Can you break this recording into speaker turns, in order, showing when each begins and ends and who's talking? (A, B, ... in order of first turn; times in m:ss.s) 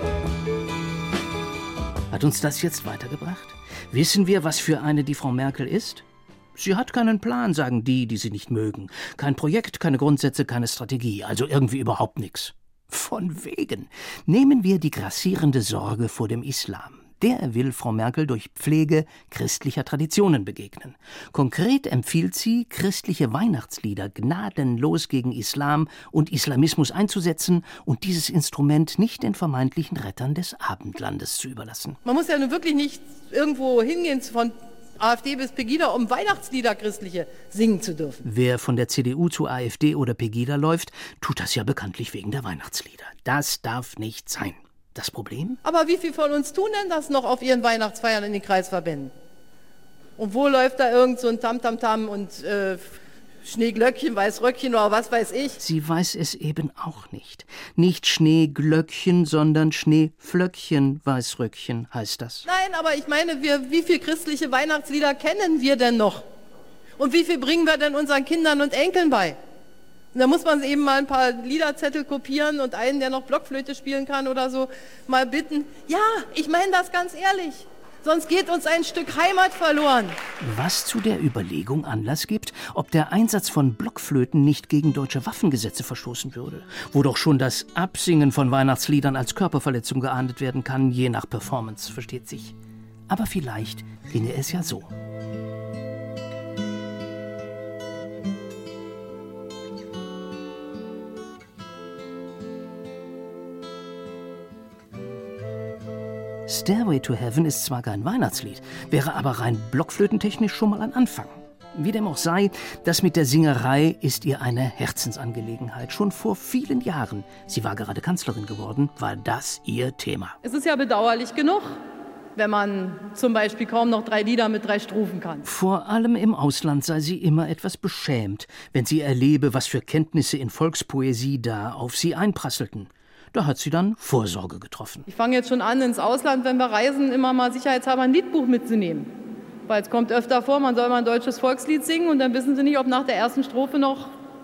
0:02.1-0:32.0 A
0:32.0-0:38.2 B
0:38.2-0:45.6 A
0:45.6-0:49.1 B
0:50.2-0:52.8 B
0:53.4-0:55.6 B
0:55.6-1:02.4 A
1:02.4-1:06.2 B
1:07.0-1:09.4 B
1:10.1-1:20.1 B
1:20.4-1:32.5 A
1:33.1-1:34.9 A
1:46.4-2:00.4 A
2:00.4-2:01.8 B
2:02.4-2:05.5 B
2:05.4-2:15.1 A
2:15.1-2:19.1 B
2:19.7-2:24.1 B